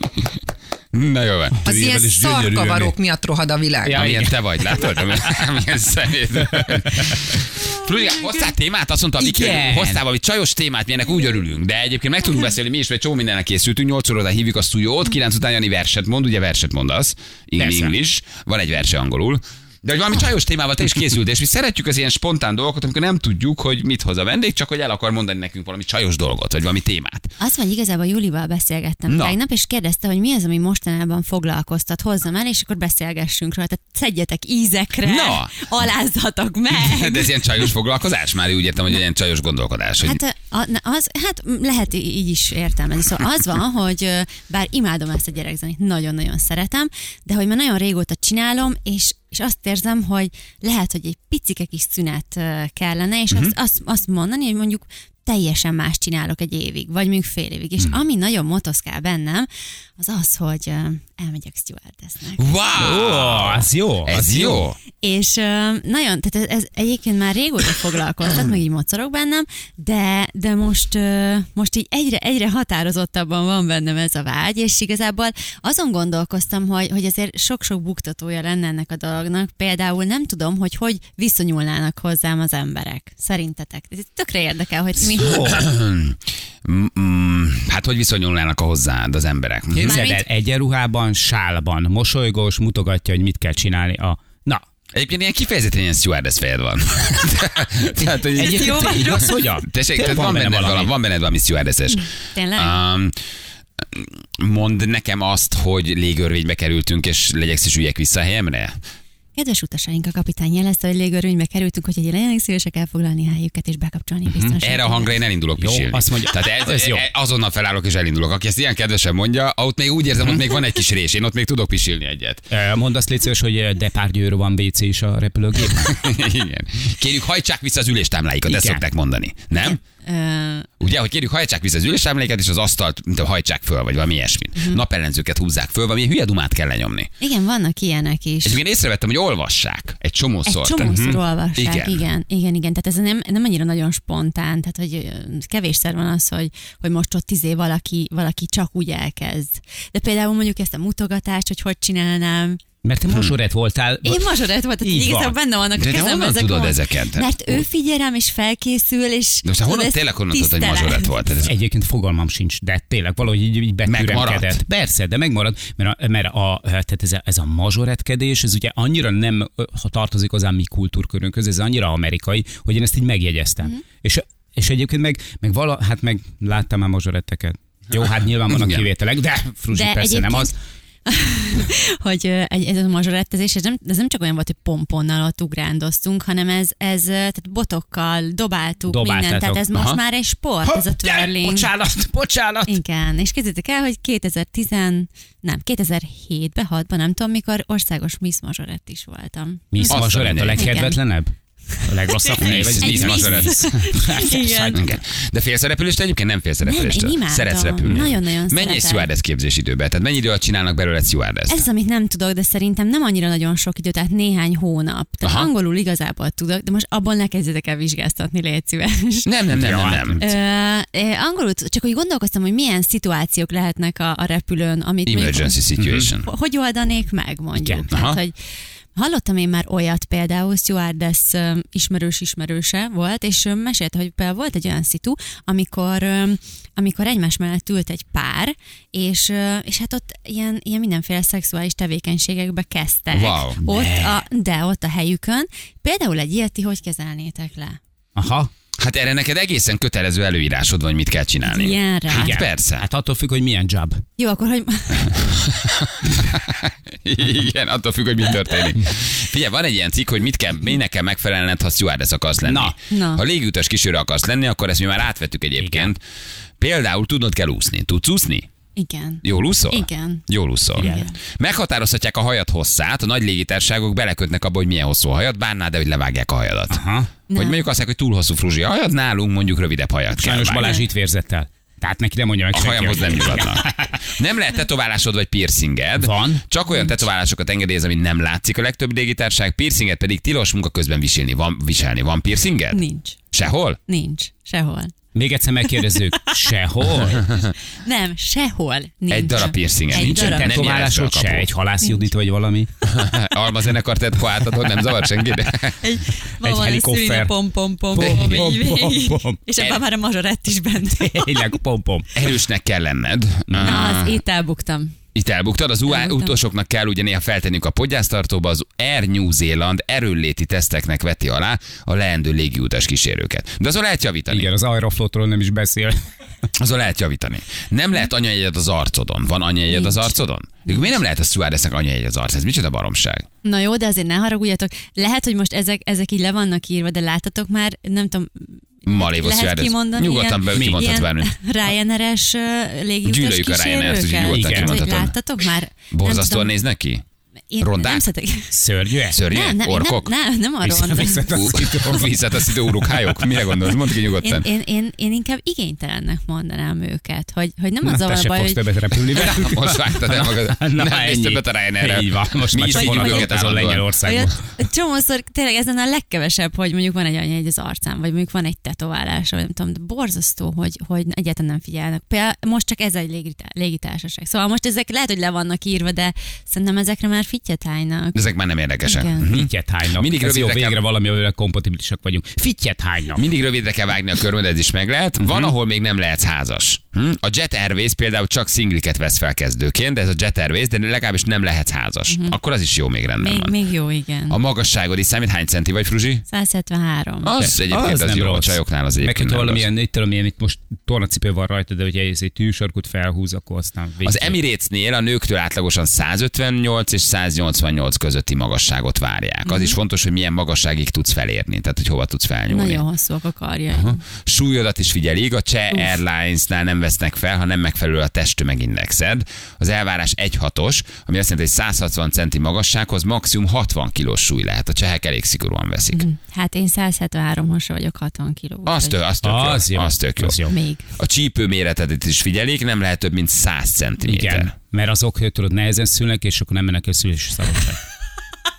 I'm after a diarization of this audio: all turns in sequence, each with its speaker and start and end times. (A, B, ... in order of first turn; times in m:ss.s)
0:00.9-0:01.8 A
0:01.6-0:03.0 B
0:01.7-0:04.0 C
0:03.8-0:04.3 B
0:03.9-0:27.3 A
0:06.6-0:07.2 B
0:09.2-0:10.0 B
0:17.6-0:17.9 B
0:27.4-0:37.4 D
0:29.1-0:29.4 A
0:35.0-0:35.7 A
0:36.7-0:40.2 A
0:40.0-1:02.4 D
1:02.4-1:04.8 A
1:02.8-1:04.6 B
1:05.0-1:25.6 D
1:25.1-1:25.6 B
1:25.4-1:29.9 A
1:29.7-1:34.6 B
1:29.8-1:30.2 D
1:34.9-1:43.1 A
1:38.3-1:40.9 B
1:38.4-1:39.4 D
1:42.3-1:42.8 D
1:43.8-1:48.8 A
1:49.4-1:55.1 D
1:54.6-2:02.5 A
1:55.6-1:57.0 B
2:02.5-2:05.9 B
2:05.8-2:09.8 A
2:08.5-2:08.8 B
2:09.6-2:10.7 D
2:10.8-2:17.1 A
2:17.2-2:18.6 D
2:18.4-2:22.0 A
2:20.4-2:32.6 D
2:20.8-2:21.2 B
2:32.8-2:35.3 B
2:33.1-2:33.4 A
2:34.0-2:41.1 D
2:35.7-2:37.6 A
2:39.4-2:41.5 A
2:41.4-3:00.5 B
2:43.9-2:44.6 A
2:58.5-2:58.9 A
2:59.7-3:00.5 D
3:01.0-3:11.7 D
3:08.9-3:09.7 B
3:09.7-3:10.0 A
3:10.6-3:12.7 B
3:12.7-3:20.0 D
3:19.7-3:21.3 B
3:19.9-3:20.8 A
3:20.6-3:21.0 D
3:21.8-3:24.8 D
3:21.8-3:24.9 B
3:22.4-3:31.6 A
3:26.6-3:29.1 D
3:27.8-3:28.1 B
3:31.5-3:39.3 D
3:35.2-3:35.5 A
3:39.2-3:40.2 A
3:39.5-3:40.3 B
3:40.2-3:45.6 D
3:45.0-3:46.3 A
3:45.8-3:46.1 B
3:46.2-3:48.3 D
3:47.6-3:47.8 B
3:47.9-3:48.2 A
3:49.0-4:07.8 D
4:03.1-4:03.6 A
4:03.6-4:04.2 B
4:08.2-4:08.5 B
4:08.7-4:12.8 A
4:11.4-4:12.4 D
4:12.1-4:14.0 B
4:14.2-4:15.2 D
4:15.1-4:26.0 A
4:22.4-4:22.8 B
4:22.9-4:23.2 D
4:25.6-4:25.9 B
4:26.6-4:28.5 A
4:28.8-4:31.1 D
4:29.2-4:36.8 A
4:30.8-4:31.1 B
4:36.7-4:37.1 B
4:37.3-4:37.6 D
4:37.3-4:40.7 A
4:40.2-4:44.1 B
4:40.6-4:40.8 D
4:42.5-4:53.8 A
4:46.0-4:46.4 B
4:52.7-4:53.2 D
4:53.9-4:54.9 D
4:55.1-4:57.3 B
4:55.8-4:56.3 D
4:57.0-4:57.5 A
4:57.7-5:00.6 D
4:59.1-5:01.5 A
4:59.9-5:02.7 B
5:02.9-5:05.8 A
5:05.8-5:11.5 D
5:06.4-5:07.3 B
5:07.9-5:09.4 B
5:11.0-5:12.1 B
5:12.1-5:14.2 A
5:13.5-5:13.8 B
5:13.6-5:15.0 D
5:15.1-5:24.5 A
5:15.8-5:16.4 D
5:24.3-5:26.0 B
5:26.5-5:33.3 A
5:29.7-5:30.1 D
5:33.4-5:46.6 D
5:38.9-5:41.3 A
5:40.5-5:41.0 B
5:43.0-5:45.1 A
5:44.2-5:44.8 B
5:45.9-5:47.0 A
5:47.5-5:48.5 D
5:47.6-5:48.1 A
5:48.5-5:49.2 B
5:49.1-5:50.1 A
5:49.2-5:51.3 D
5:50.6-5:53.3 B
5:51.2-5:54.5 A
5:54.2-5:58.6 D
5:57.8-6:04.4 B
5:59.1-6:03.8 A
6:02.7-6:03.4 D
6:04.0-6:18.2 D
6:18.1-6:20.8 A
6:18.8-6:19.3 D
6:19.2-6:23.2 B
6:23.1-6:33.5 A
6:25.2-6:25.5 B
6:32.1-6:32.4 D
6:33.2-6:34.4 D
6:34.3-6:36.2 A
6:36.3-6:37.3 D
6:37.2-6:39.7 A
6:37.4-6:44.4 B
6:44.0-6:52.8 A
6:49.4-6:49.8 D
6:52.5-6:54.0 D
6:53.7-7:06.0 A
7:05.9-7:09.0 D
7:08.6-7:14.5 A
7:09.2-7:10.6 B
7:10.5-7:10.9 D
7:14.0-7:17.8 B